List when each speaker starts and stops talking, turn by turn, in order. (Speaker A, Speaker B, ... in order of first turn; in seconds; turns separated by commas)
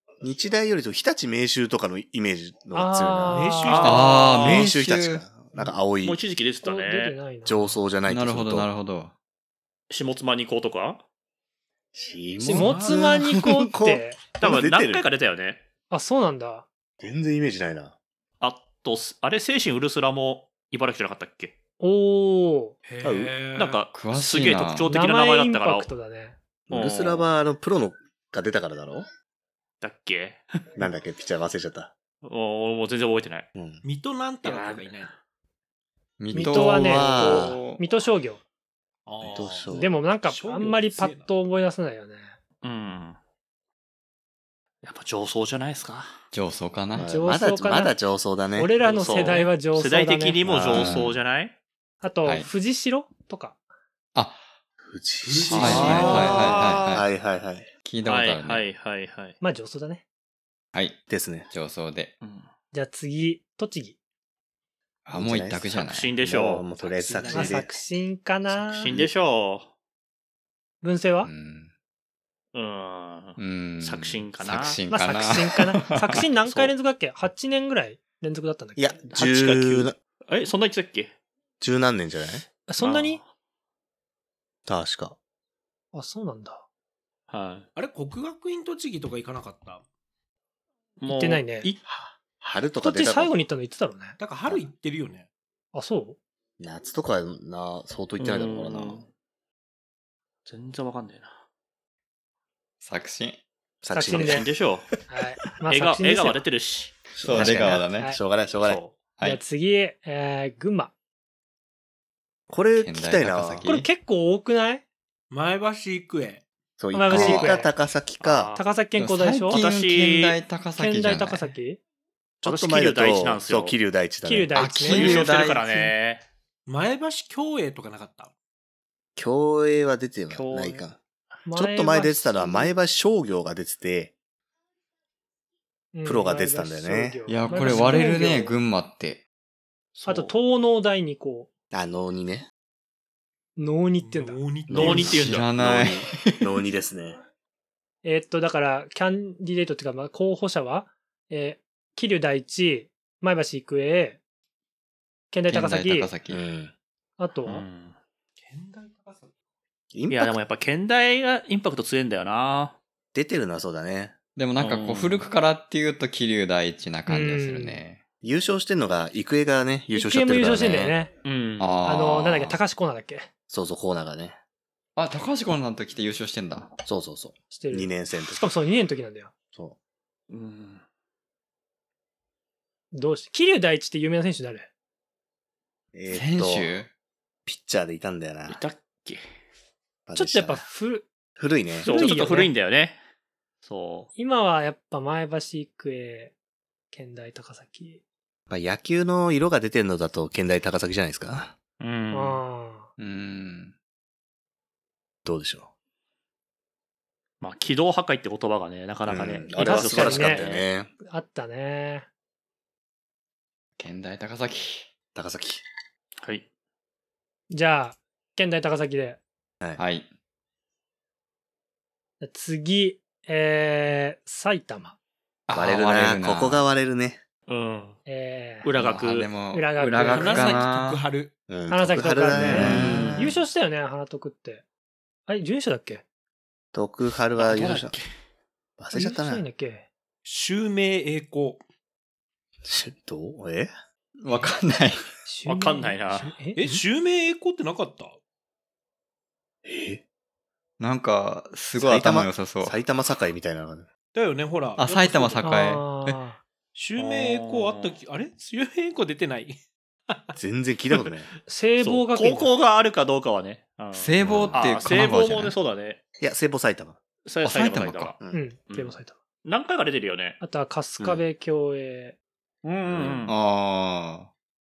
Speaker A: 0.2-3.5, Speaker B: 2.7-4.0, Speaker C: 3.3-4.3, Speaker D: 3.7-4.7, Speaker E: 3.8-5.2, Speaker A: 4.3-6.2, Speaker D: 6.0-7.2, Speaker B: 6.6-7.8, Speaker A: 7.4-8.7, Speaker E: 8.1-9.1, Speaker D: 9.9-11.0, Speaker A: 11.9-15.1, Speaker B: 12.4-14.2, Speaker C: 12.5-13.1, Speaker D: 14.4-15.6, Speaker B: 15.9-16.6, Speaker A: 17.0-17.9, Speaker D: 18.4-21.5, Speaker B: 21.8-22.8, Speaker C: 22.8-23.8, Speaker D: 23.0-25.9, Speaker E: 23.9-24.9, Speaker B: 24.9-26.4, Speaker A: 26.7-29.1, Speaker D: 26.7-27.3, Speaker D: 29.8-30.4, Speaker A: 30.8-31.9, Speaker D: 32.2-33.5, Speaker A: 33.5-33.8, Speaker C: 33.8-35.1, Speaker D: 34.4-35.1, Speaker E: 36.2-37.8, Speaker B: 36.3-38.4, Speaker A: 36.3-37.6, Speaker C: 39.0-41.3, Speaker A: 39.2-39.9, Speaker B: 39.7-42.3, Speaker D: 42.6-43.2, Speaker D: 44.8-46.2, Speaker E: 46.3-47.1, Speaker A: 46.9-48.7, Speaker B: 47.0-48.0, Speaker B: 48.5-50.4, Speaker C: 48.8-49.4, Speaker D: 48.8-51.5, Speaker A: 50.4-51.2, Speaker E: 50.7-51.2, Speaker B: 52.0-53.6, Speaker E: 52.2-52.5, Speaker E: 54.1-54.5, Speaker A: 54.8-57.7, Speaker C: 55.2-56.6, Speaker D: 55.5-57.0, Speaker E: 55.5-57.1, Speaker E: 57.8-58.7, Speaker D: 58.0-59.4, Speaker B: 59.4-60.0, Speaker E: 60.7-61.0, Speaker A: 61.1-61.5, Speaker E: 61.5-62.1, Speaker D: 62.2-62.5, Speaker B: 62.7-64.0, Speaker E: 65.0-66.1, Speaker A: 65.1-67.7, Speaker D: 65.8-66.7, Speaker C: 66.8-67.7, Speaker B: 67.3-68.9, Speaker D: 68.6-69.7, Speaker B: 70.8-71.3, Speaker E: 71.2-71.7, Speaker D: 72.5-74.8, Speaker E: 73.4-76.3, Speaker B: 74.9-79.0, Speaker D: 76.5-76.7, Speaker A: 78.8-79.9, Speaker D: 79.1-81.1, Speaker A: 81.6-82.4, Speaker B: 82.7-83.2, Speaker D: 82.8-83.3, Speaker A: 84.7-85.2, Speaker B: 85.9-86.6, Speaker D: 87.3-87.7, Speaker C: 87.7-89.8, Speaker D: 91.0-91.8, Speaker B: 91.0-91.7, Speaker A: 91.9-93.3, Speaker B: 92.8-94.2, Speaker C: 94.2-95.2, Speaker B: 95.7-96.2, Speaker A: 96.6-99.0, Speaker D: 98.2-99.1, Speaker D: 100.5-101.4, Speaker E: 102.8-103.4, Speaker A: 103.8-104.9, Speaker B: 103.9-104.5, Speaker D: 104.1-104.9, Speaker B: 105.1-106.4, Speaker D: 105.7-107.6, Speaker A: 107.1-108.8, Speaker E: 107.2-108.1, Speaker B: 107.4-108.2, Speaker D: 108.6-108.9, Speaker B: 109.2-110.9, Speaker A: 112.5-113.7, Speaker E: 112.8-113.9, Speaker B: 113.6-114.8, Speaker C: 115.3-116.4, Speaker A: 116.8-118.5, Speaker B: 116.9-117.7, Speaker E: 117.1-117.6, Speaker D: 118.2-118.6, Speaker B: 118.5-119.6, Speaker E: 119.0-121.5, Speaker D: 119.5-120.4, Speaker B: 120.8-121.8, Speaker A: 122.4-125.1, Speaker D: 122.4-123.8, Speaker B: 124.2-125.3, Speaker E: 124.5-125.7, Speaker D: 124.8-126.2, Speaker C: 126.7-128.3, Speaker A: 129.1-131.0, Speaker D: 130.3-130.8, Speaker B: 131.5-132.7, Speaker A: 131.5-134.1, Speaker B: 135.9-138.6, Speaker A: 136.0-137.2, Speaker E: 137.3-139.2, Speaker C: 137.5-138.2, Speaker D: 139.9-140.3, Speaker B: 140.1-141.5, Speaker A: 141.7-142.5, Speaker B: 143.6-144.4, Speaker C: 144.0-145.2, Speaker A: 144.7-147.2, Speaker D: 144.7-145.5, Speaker E: 145.1-146.5, Speaker B: 148.0-154.2, Speaker B: 155.3-156.1, Speaker E: 155.5-156.4, Speaker A: 156.3-156.7, Speaker B: 157.2-157.6, Speaker D: 157.4-157.9, Speaker C: 158.4-159.3, Speaker A: 159.9-160.4, Speaker D: 160.1-162.8, Speaker A: 163.1-164.1, Speaker E: 164.3-168.0, Speaker D: 164.6-165.2, Speaker B: 167.1-167.8, Speaker A: 168.2-171.0, Speaker B: 169.9-171.1, Speaker D: 171.2-171.8, Speaker E: 171.6-172.6, Speaker B: 171.8-173.3, Speaker A: 173.5-174.4, Speaker E: 174.9-176.7, Speaker A: 176.8-178.5, Speaker B: 177.5-179.3, Speaker D: 180.3-180.8, Speaker B: 182.9-184.7, Speaker A: 185.9-186.7, Speaker E: 186.1-186.9, Speaker A: 187.4-188.6, Speaker D: 188.5-189.2, Speaker A: 190.1-190.7, Speaker B: 190.1-191.1, Speaker A: 191.4-192.1, Speaker B: 191.8-192.5, Speaker D: 191.8-193.0, Speaker D: 193.6-194.1, Speaker B: 194.2-196.3, Speaker B: 196.9-198.0, Speaker A: 198.5-201.5, Speaker D: 201.8-202.4, Speaker B: 202.1-202.9, Speaker E: 203.0-203.7, Speaker A: 205.2-205.7, Speaker D: 207.4-210.7, Speaker A: 209.1-210.9, Speaker B: 209.6-210.4, Speaker B: 211.0-212.1, Speaker E: 213.8-214.9, Speaker A: 215.1-215.6, Speaker D: 216.2-216.4, Speaker B: 217.5-219.2, Speaker E: 219.8-220.1, Speaker B: 222.2-224.9, Speaker E: 225.5-226.6, Speaker A: 225.5-227.2, Speaker D: 227.5-228.0, Speaker B: 228.1-228.7, Speaker D: 228.6-229.3, Speaker E: 228.8-231.0, Speaker B: 229.5-230.7, Speaker C: 230.1-231.3, Speaker A: 231.5-233.4, Speaker B: 231.7-234.6, Speaker E: 232.3-233.3, Speaker D: 232.6-233.0, Speaker B: 235.3-236.0, Speaker A: 236.7-238.0, Speaker D: 237.4-238.1, Speaker A: 238.8-239.4, Speaker B: 238.9-239.8, Speaker C: 240.2-241.6, Speaker A: 242.6-243.7, Speaker E: 244.2-245.1, Speaker B: 245.2-246.7, Speaker D: 245.4-246.3, Speaker C: 246.5-248.2, Speaker A: 249.6-250.0, Speaker E: 250.8-252.8, Speaker A: 251.8-253.9, Speaker C: 254.1-255.4, Speaker E: 254.8-256.2, Speaker B: 255.4-256.4, Speaker C: 256.7-259.6, Speaker D: 257.0-258.0, Speaker C: 260.1-260.4, Speaker A: 260.4-261.3, Speaker B: 261.5-262.5, Speaker D: 261.8-266.0, Speaker E: 263.9-265.6, Speaker A: 264.2-264.6, Speaker A: 266.2-267.0, Speaker D: 267.2-268.2, Speaker E: 267.4-268.1, Speaker B: 268.3-269.1, Speaker D: 268.7-270.4, Speaker B: 270.4-272.1, Speaker D: 272.6-273.3, Speaker A: 272.9-273.3, Speaker E: 273.2-274.3